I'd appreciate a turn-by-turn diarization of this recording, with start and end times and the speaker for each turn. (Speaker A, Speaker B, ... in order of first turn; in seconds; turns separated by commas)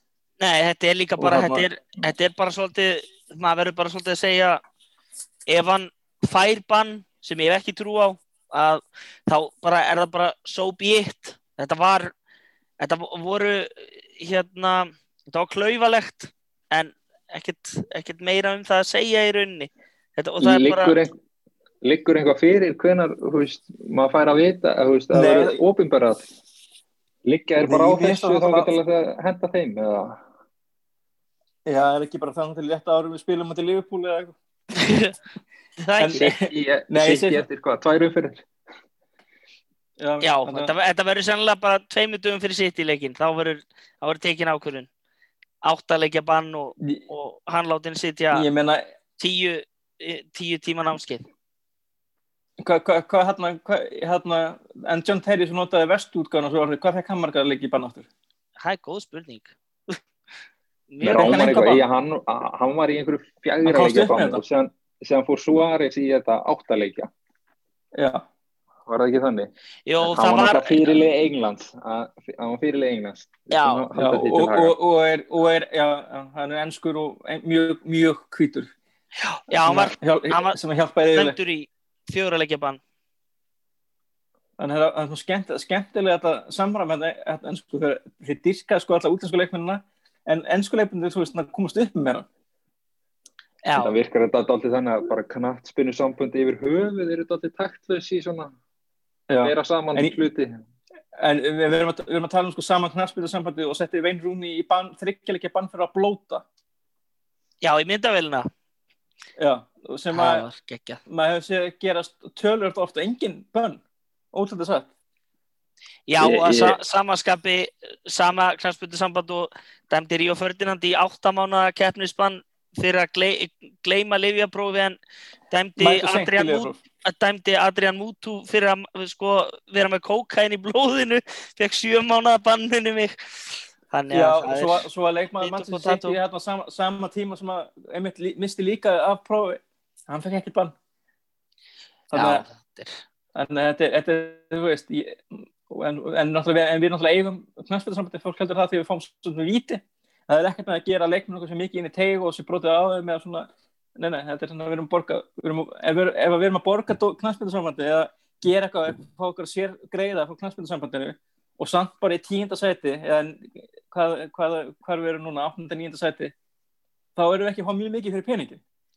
Speaker A: 0.4-4.6, Speaker B: 1.2-1.7, Speaker A: 5.5-12.1, Speaker A: 12.8-21.0, Speaker C: 20.4-21.1, Speaker C: 21.8-26.3, Speaker B: 25.1-25.6, Speaker C: 27.3-30.2, Speaker B: 27.6-28.7, Speaker B: 31.7-34.4, Speaker A: 34.8-35.1, Speaker A: 35.8-36.3, Speaker B: 36.0-37.5, Speaker C: 36.5-38.4, Speaker B: 40.0-40.7, Speaker A: 40.2-44.9, Speaker A: 45.6-48.5, Speaker B: 48.3-48.8, Speaker A: 49.2-51.2, Speaker B: 52.6-58.1, Speaker A: 58.6-60.0, Speaker A: 60.9-61.5, Speaker B: 61.0-61.8, Speaker C: 61.0-67.1, Speaker B: 63.6-64.4, Speaker B: 68.0-68.2, Speaker C: 68.9-69.5, Speaker A: 69.9-71.0, Speaker C: 70.0-74.8, Speaker A: 73.5-73.8, Speaker B: 74.0-78.7, Speaker A: 79.2-80.6, Speaker B: 79.7-81.4, Speaker A: 81.2-82.8, Speaker B: 84.6-92.3, Speaker A: 93.7-93.9, Speaker C: 93.8-98.5, Speaker B: 99.3-100.1, Speaker C: 99.4-100.5, Speaker B: 101.2-106.5, Speaker A: 107.6-108.5, Speaker B: 109.4-110.5, Speaker A: 110.1-111.0, Speaker B: 111.1-113.8, Speaker B: 114.3-114.9, Speaker A: 116.1-125.0, Speaker C: 116.2-116.8, Speaker A: 125.5-134.9, Speaker B: 125.8-126.8, Speaker B: 134.1-140.7, Speaker A: 135.4-136.2, Speaker B: 142.1-142.4, Speaker A: 142.1-143.0, Speaker B: 143.3-166.3, Speaker B: 167.2-168.6